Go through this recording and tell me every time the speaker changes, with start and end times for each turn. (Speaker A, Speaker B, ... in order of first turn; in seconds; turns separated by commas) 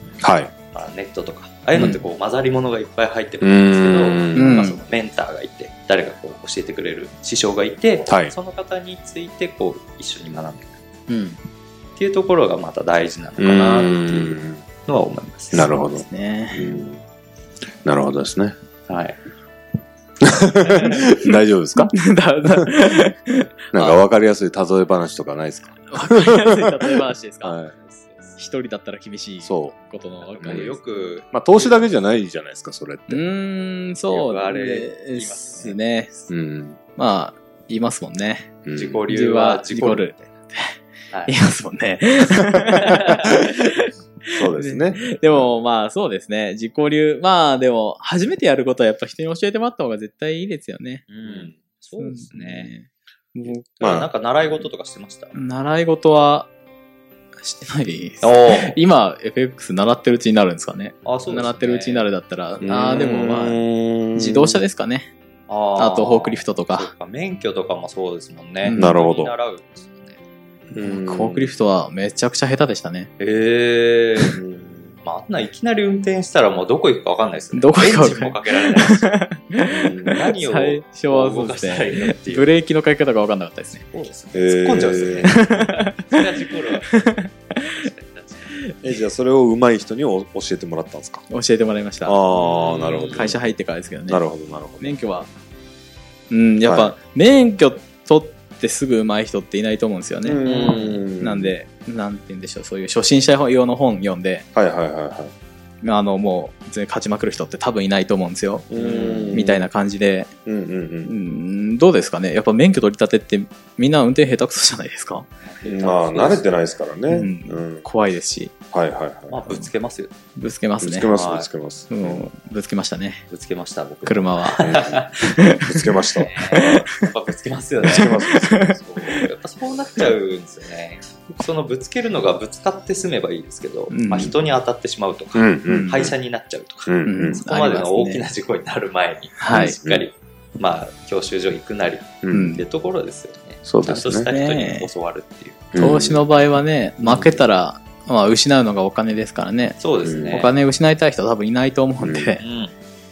Speaker A: 0.2-0.5, Speaker B: 0.7-10.8, Speaker A: 3.4-4.5, Speaker C: 4.3-4.8, Speaker A: 8.1-8.3, Speaker C: 11.1-11.4, Speaker B: 12.0-15.7, Speaker A: 13.4-14.6, Speaker A: 15.5-17.0, Speaker C: 15.8-16.7, Speaker A: 17.8-18.6, Speaker B: 18.9-19.2, Speaker A: 20.4-21.9, Speaker B: 20.6-21.0, Speaker C: 21.8-23.9, Speaker A: 23.7-26.3, Speaker C: 25.9-27.6, Speaker A: 27.4-27.8, Speaker B: 27.8-28.4, Speaker C: 28.4-30.8, Speaker A: 29.4-29.8, Speaker B: 30.3-31.9, Speaker A: 30.4-30.7, Speaker A: 31.3-33.2, Speaker C: 33.1-36.2, Speaker B: 34.1-35.8, Speaker A: 36.3-36.8, Speaker C: 37.0-38.5, Speaker A: 38.6-39.0, Speaker B: 38.7-40.2, Speaker C: 39.1-40.7, Speaker C: 41.2-53.7, Speaker B: 42.9-43.1, Speaker A: 44.3-45.5, Speaker B: 51.1-52.7, Speaker B: 53.4-55.4, Speaker A: 53.8-54.1, Speaker C: 55.3-56.5, Speaker C: 57.4-63.6, Speaker B: 58.2-58.8, Speaker B: 61.0-62.1, Speaker A: 62.6-64.6, Speaker C: 64.1-65.1, Speaker B: 65.5-70.2, Speaker C: 65.8-66.9, Speaker C: 68.6-69.0, Speaker A: 68.7-69.3, Speaker A: 70.7-71.5, Speaker C: 70.7-73.1, Speaker B: 73.2-74.4, Speaker A: 74.4-75.0, Speaker B: 75.0-79.1, Speaker C: 77.5-83.9, Speaker A: 79.6-80.2, Speaker B: 79.7-82.5, Speaker B: 83.7-87.0, Speaker A: 84.3-85.3, Speaker C: 85.2-86.2, Speaker C: 86.9-87.3, Speaker B: 87.6-88.7, Speaker A: 88.8-91.2, Speaker C: 91.3-94.2, Speaker A: 92.0-93.4, Speaker B: 92.3-93.4, Speaker A: 94.1-94.9, Speaker C: 94.8-95.3, Speaker C: 96.3-100.4, Speaker A: 96.6-96.9, Speaker A: 100.2-101.5, Speaker B: 100.4-101.0, Speaker C: 101.2-104.5, Speaker A: 104.5-105.3, Speaker C: 105.8-110.3, Speaker A: 108.7-109.7, Speaker B: 108.7-109.3, Speaker A: 110.5-111.1, Speaker C: 111.0-115.3, Speaker B: 115.4-116.6, Speaker A: 115.6-117.8, Speaker C: 117.1-118.5, Speaker A: 118.7-119.4, Speaker B: 119.3-120.1, Speaker C: 120.3-121.1, Speaker A: 120.8-122.3, Speaker B: 121.1-121.5, Speaker C: 121.9-123.2, Speaker B: 123.3-125.1, Speaker C: 124.0-125.7, Speaker A: 125.7-126.8, Speaker B: 126.2-128.1, Speaker C: 126.5-127.1, Speaker A: 127.8-129.0, Speaker C: 127.9-129.2, Speaker B: 128.8-145.7, Speaker C: 133.9-134.3, Speaker A: 135.3-136.1, Speaker C: 135.7-136.1, Speaker A: 136.8-137.4, Speaker C: 137.1-138.3, Speaker C: 139.4-139.8, Speaker A: 139.5-140.1, Speaker A: 142.2-142.5, Speaker C: 142.3-142.6, Speaker A: 143.6-144.3, Speaker C: 144.2-144.9, Speaker A: 145.7-146.2, Speaker C: 145.8-152.4, Speaker A: 147.0-147.3, Speaker B: 149.8-150.5, Speaker A: 150.0-150.4, Speaker A: 152.0-152.3, Speaker B: 152.4-152.7